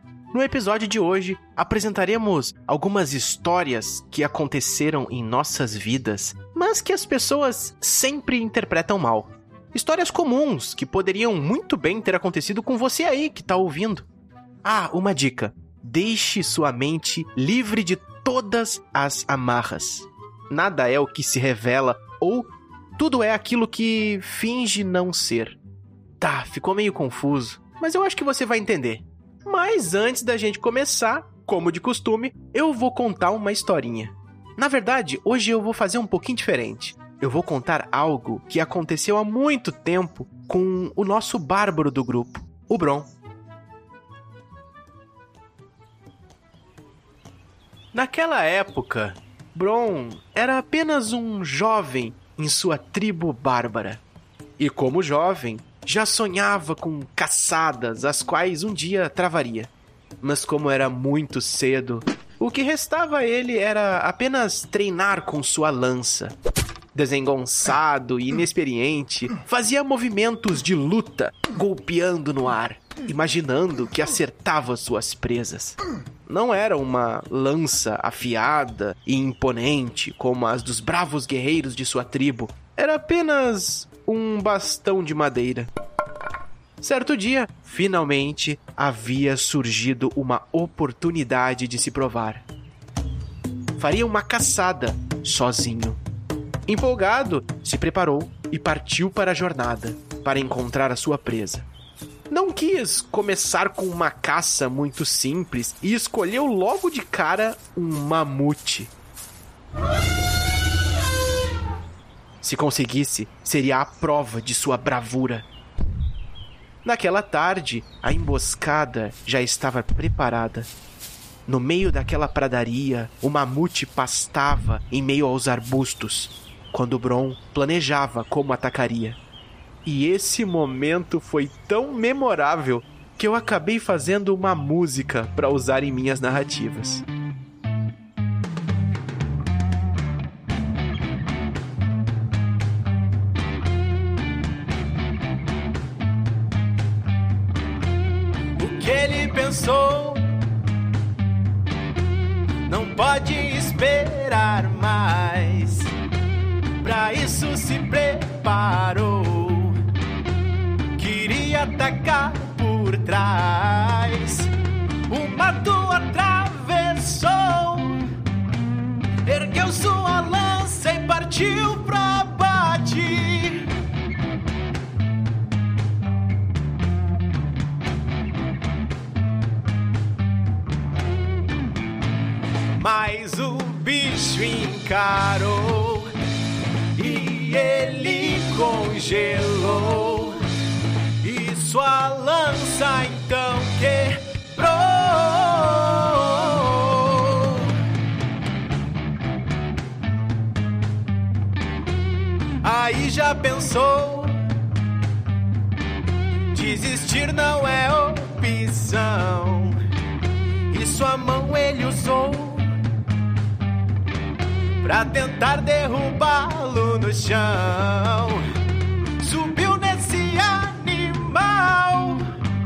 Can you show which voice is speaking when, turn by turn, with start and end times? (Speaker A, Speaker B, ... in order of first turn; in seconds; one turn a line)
Speaker A: 0.3-14.1
Speaker A: 14.6-25.6
Speaker A: 26.2-43.1
Speaker A: 47.9-54.0
Speaker A: 54.6-59.7
Speaker A: 60.2-66.3
Speaker A: 67.0-85.7
Speaker A: 86.8-92.5
Speaker A: 93.8-96.0
Speaker A: 96.7-101.7
Speaker A: 102.3-108.9
Speaker A: 112.4-115.5
Speaker A: 116.8-120.7
Speaker A: 121.5-129.2
Speaker A: 129.9-137.0
Speaker A: 148.6-150.3
Speaker A: 152.7-155.9
Speaker A: 156.8-159.8
Speaker A: 161.0-164.5
Speaker A: 165.1-168.1
Speaker A: 169.3-173.7
Speaker A: 182.8-186.1
Speaker A: 187.0-190.4
Speaker A: 191.2-197.7
Speaker A: 202.6-204.4
Speaker A: 206.5-209.8
Speaker A: 210.7-212.7
Speaker A: 214.8-218.4
Speaker A: 219.2-222.3